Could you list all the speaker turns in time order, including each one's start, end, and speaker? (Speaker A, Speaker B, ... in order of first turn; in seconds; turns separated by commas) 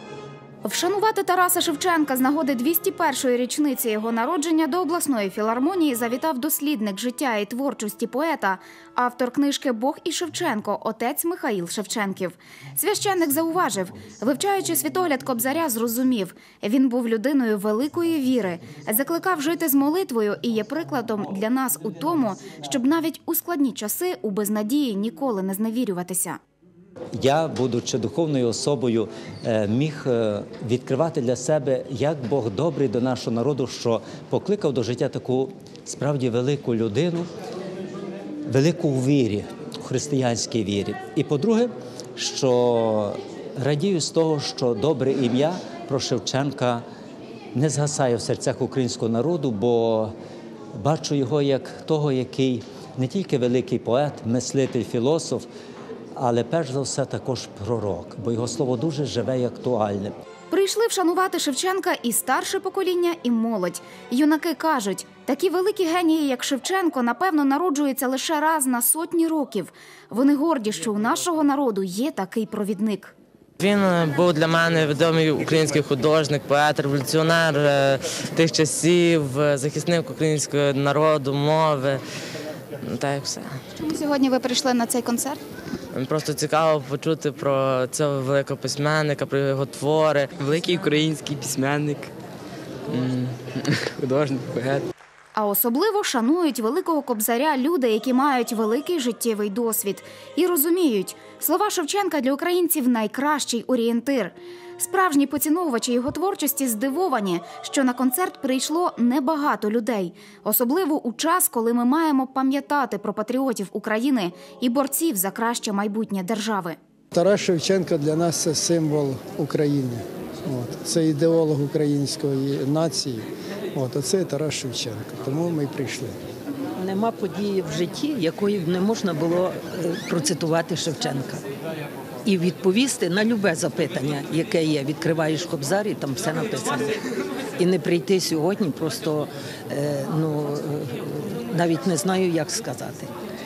Speaker A: 0.6-26.4, Speaker B: 27.1-37.3, Speaker B: 38.5-46.8, Speaker B: 47.5-50.1, Speaker B: 50.8-55.5, Speaker B: 56.1-60.1, Speaker A: 60.5-73.1, Speaker C: 73.6-82.0, Speaker C: 82.8-83.5, Speaker A: 83.7-85.4, Speaker C: 85.9-90.3, Speaker D: 90.4-92.1, Speaker D: 92.9-94.9, Speaker A: 95.3-116.8, Speaker E: 117.1-126.1, Speaker F: 126.8-131.4, Speaker F: 132.2-137.0, Speaker F: 137.6-143.1